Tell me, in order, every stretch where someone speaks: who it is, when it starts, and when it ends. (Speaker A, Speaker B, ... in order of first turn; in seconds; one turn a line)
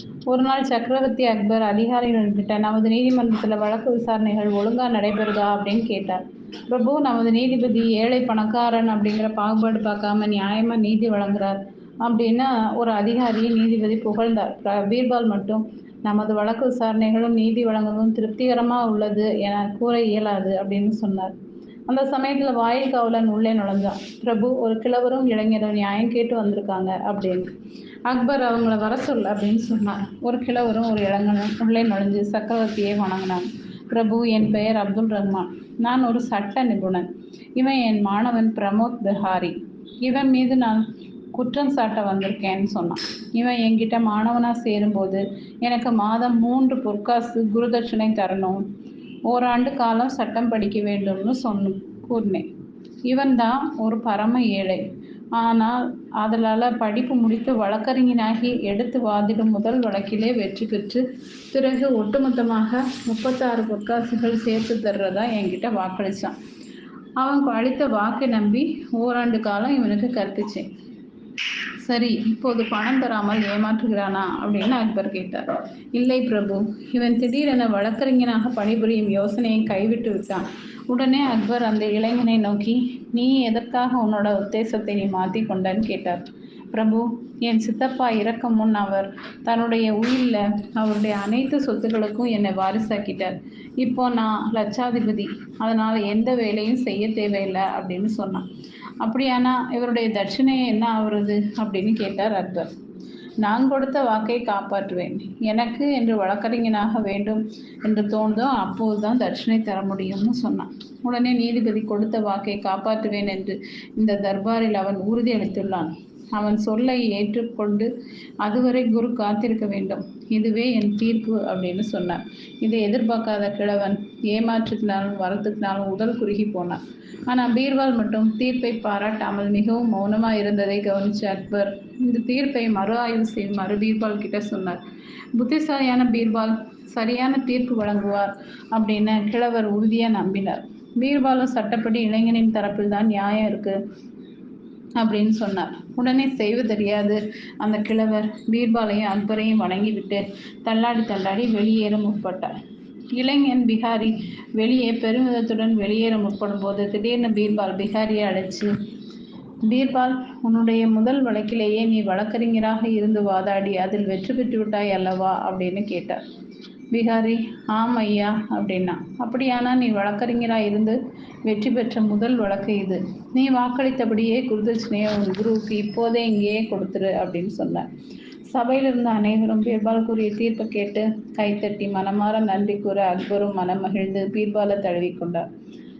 Speaker A: 0.3-21.3
Speaker A: 21.9-27.5
Speaker A: 28.1-48.6
Speaker A: 49.3-52.5
Speaker A: 53.1-54.8
Speaker A: 55.3-66.3
Speaker A: 67.2-70.7
Speaker A: 71.8-98.5
Speaker A: 99.0-102.7
Speaker A: 103.4-117.9
Speaker A: 118.4-134.8
Speaker A: 135.3-143.8
Speaker A: 145.0-152.5
Speaker A: 153.1-158.7
Speaker A: 159.7-166.2
Speaker A: 166.9-177.9
Speaker A: 178.5-185.4